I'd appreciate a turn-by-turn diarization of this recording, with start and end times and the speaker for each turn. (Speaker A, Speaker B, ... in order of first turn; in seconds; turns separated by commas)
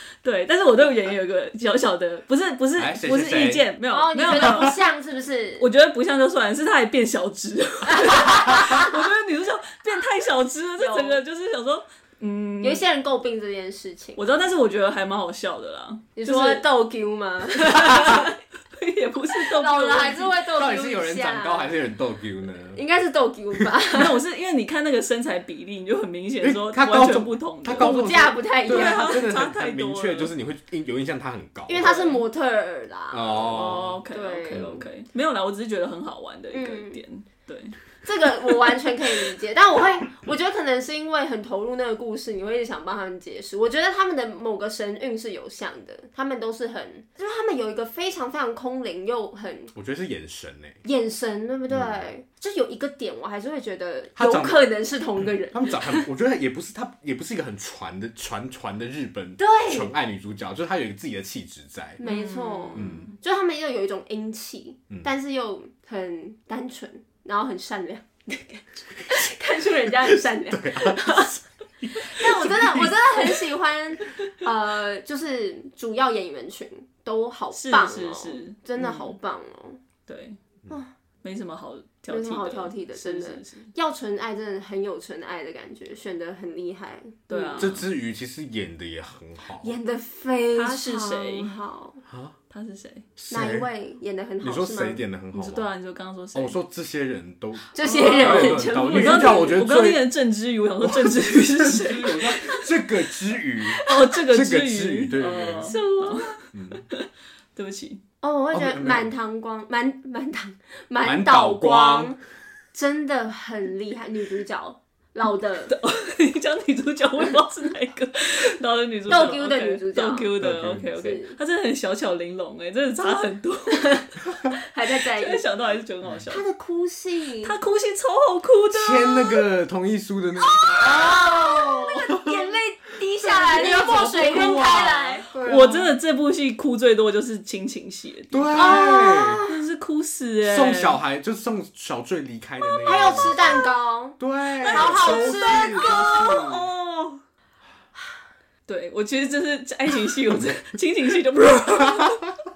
Speaker A: 0.2-4.8, Speaker B: 2.8-3.7, Speaker C: 3.9-5.7, Speaker B: 4.3-4.7, Speaker A: 5.6-12.8, Speaker C: 7.9-8.9, Speaker C: 10.8-11.2, Speaker C: 12.6-14.3, Speaker A: 14.2-16.6, Speaker C: 16.2-18.4, Speaker A: 17.6-20.4, Speaker C: 19.3-21.7, Speaker B: 20.6-22.8, Speaker C: 22.7-24.2, Speaker A: 23.9-28.0, Speaker B: 26.4-31.9, Speaker C: 27.8-29.2, Speaker A: 28.6-30.3, Speaker C: 31.7-34.9, Speaker A: 31.8-32.2, Speaker B: 33.1-34.8, Speaker A: 33.5-37.8, Speaker C: 36.5-37.0, Speaker C: 38.0-49.7, Speaker B: 49.8-50.8, Speaker C: 50.8-56.0, Speaker B: 51.7-52.0, Speaker B: 54.2-54.6, Speaker B: 55.5-62.0, Speaker C: 59.4-59.9, Speaker C: 62.0-71.3, Speaker A: 62.0-63.1, Speaker B: 62.8-63.1, Speaker B: 69.9-73.4, Speaker C: 72.0-79.8, Speaker A: 77.5-79.2, Speaker A: 80.1-80.4, Speaker A: 81.2-83.7, Speaker C: 82.1-87.8, Speaker A: 87.3-87.9, Speaker B: 87.6-89.7, Speaker C: 89.6-92.0, Speaker A: 90.5-91.5, Speaker B: 92.1-92.4, Speaker A: 92.5-93.0, Speaker B: 93.2-93.7, Speaker C: 93.3-95.0, Speaker B: 94.4-95.7, Speaker A: 95.3-96.6, Speaker B: 96.3-100.0, Speaker C: 97.7-99.6, Speaker A: 97.8-102.7, Speaker B: 100.8-105.8, Speaker C: 103.8-104.1, Speaker A: 103.8-108.0, Speaker C: 105.6-106.4, Speaker B: 106.5-106.8, Speaker C: 108.2-112.2, Speaker B: 108.5-109.1, Speaker B: 111.0-112.2, Speaker C: 112.7-115.7, Speaker A: 115.7-124.2, Speaker C: 119.1-120.3, Speaker B: 120.4-120.9, Speaker C: 121.0-121.4, Speaker C: 123.7-124.0, Speaker C: 124.6-125.4, Speaker A: 124.8-126.4, Speaker C: 126.3-127.5, Speaker A: 127.4-129.4, Speaker B: 128.7-132.5, Speaker C: 130.4-135.9, Speaker B: 133.3-135.6, Speaker A: 133.6-138.9, Speaker B: 138.3-139.4, Speaker C: 138.5-139.6, Speaker A: 139.5-141.0, Speaker B: 140.4-143.5, Speaker C: 142.8-146.3, Speaker A: 143.0-143.3, Speaker B: 144.2-146.7, Speaker A: 144.6-147.2, Speaker A: 148.7-152.3, Speaker B: 151.7-152.3